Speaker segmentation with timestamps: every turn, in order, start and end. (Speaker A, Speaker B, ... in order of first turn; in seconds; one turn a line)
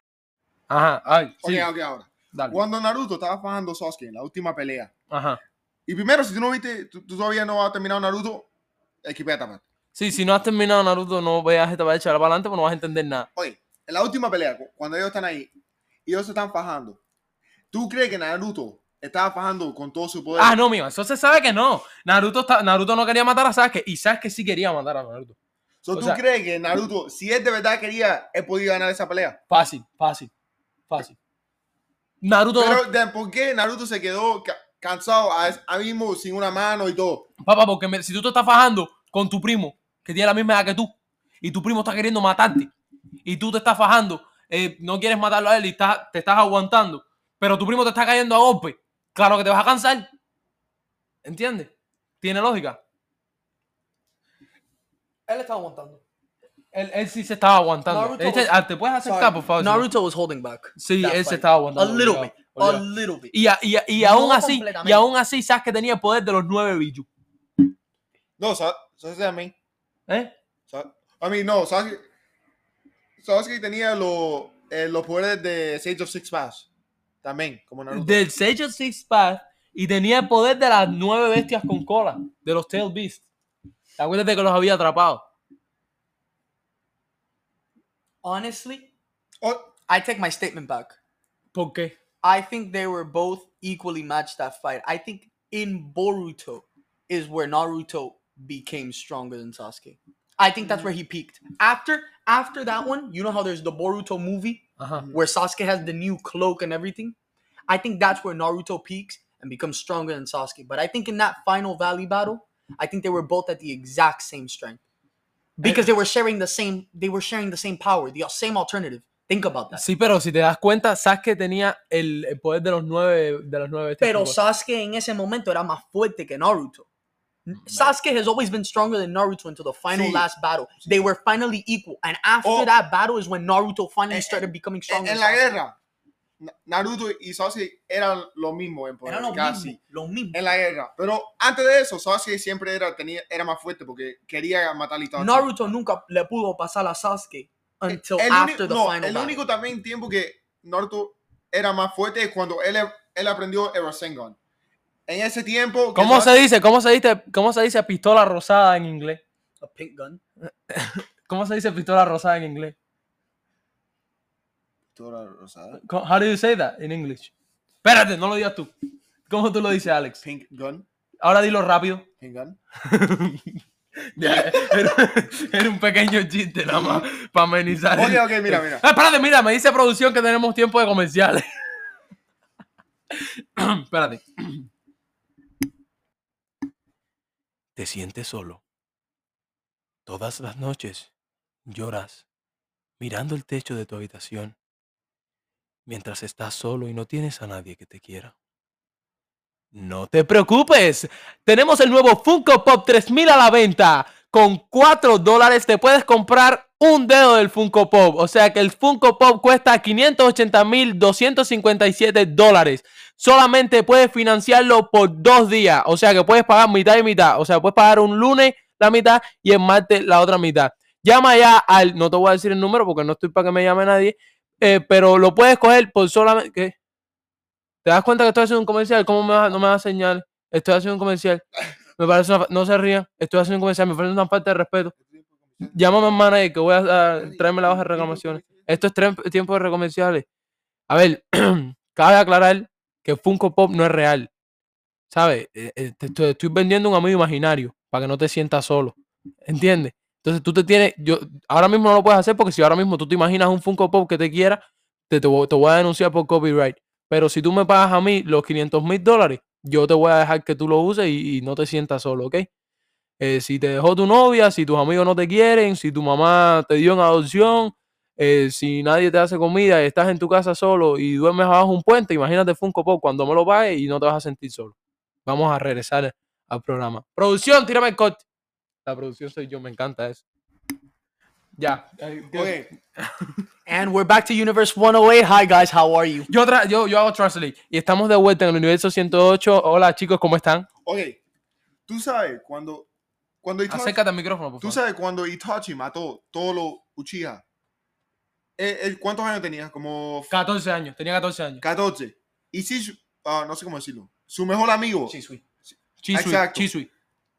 Speaker A: 0.7-1.7
Speaker B: 1.4-4.9
Speaker A: 5.1-5.4
Speaker B: 5.9-8.5
Speaker B: 9.0-9.6
Speaker A: 9.9-13.3
Speaker B: 13.3-15.5
Speaker B: 16.1-17.0
Speaker B: 17.7-20.6
Speaker A: 20.4-25.4
Speaker B: 25.8-29.4
Speaker A: 25.9-26.2
Speaker A: 29.5-30.3
Speaker A: 30.9-31.2
Speaker A: 32.2-32.8
Speaker B: 32.6-37.3
Speaker A: 37.4-42.7
Speaker A: 43.2-50.1
Speaker A: 51.2-52.8
Speaker C: 55.3-56.0
Speaker A: 56.7-59.9
Speaker C: 57.9-63.3
Speaker A: 60.8-67.1
Speaker C: 64.0-65.0
Speaker B: 68.4-69.5
Speaker A: 70.1-70.3
Speaker B: 70.7-72.0
Speaker B: 73.2-76.7
Speaker B: 77.2-78.2
Speaker A: 77.9-83.2
Speaker A: 84.0-85.2
Speaker C: 88.2-88.9
Speaker B: 89.4-89.7
Speaker C: 89.9-91.0
Speaker A: 91.5-92.0
Speaker C: 92.2-107.1
Speaker A: 104.8-105.0
Speaker B: 105.0-105.2
Speaker C: 107.7-114.8
Speaker C: 115.6-119.8
Speaker A: 119.7-124.3
Speaker C: 124.0-126.8
Speaker C: 127.5-135.4
Speaker A: 127.7-127.9
Speaker B: 129.9-130.3
Speaker B: 132.4-132.7
Speaker B: 134.1-135.8
Speaker B: 136.4-139.8
Speaker C: 139.0-140.4
Speaker B: 140.3-145.5
Speaker C: 145.2-149.4
Speaker B: 147.9-154.4
Speaker B: 155.1-156.4
Speaker A: 155.9-159.2
Speaker C: 159.6-160.2
Speaker A: 160.7-162.7
Speaker B: 164.9-165.8
Speaker A: 165.8-167.3
Speaker A: 167.8-168.7
Speaker A: 169.2-170.2
Speaker B: 170.2-170.8
Speaker A: 171.2-172.1
Speaker B: 172.2-172.6
Speaker A: 172.8-173.6
Speaker A: 174.2-181.5
Speaker B: 177.9-178.8
Speaker A: 183.1-184.7
Speaker A: 187.8-188.6
Speaker A: 190.1-191.1
Speaker A: 191.7-192.2
Speaker A: 193.0-194.6
Speaker A: 195.8-198.3
Speaker A: 199.7-226.7
Speaker A: 227.8-231.4
Speaker A: 232.0-234.9
Speaker B: 235.0-236.2
Speaker A: 235.7-240.2
Speaker B: 237.2-238.6
Speaker A: 240.9-244.3
Speaker A: 245.1-262.5
Speaker A: 263.2-274.7
Speaker A: 275.2-278.2
Speaker A: 278.8-280.2
Speaker A: 281.6-283.4
Speaker B: 282.3-282.7
Speaker C: 283.6-286.3
Speaker A: 286.3-290.7
Speaker B: 290.8-291.2
Speaker B: 291.9-292.9
Speaker B: 293.4-294.0
Speaker A: 293.7-294.8
Speaker B: 294.6-297.4
Speaker B: 298.6-300.3
Speaker A: 300.3-301.6
Speaker B: 301.6-305.1
Speaker C: 305.1-305.4
Speaker A: 306.0-306.9
Speaker B: 306.1-306.7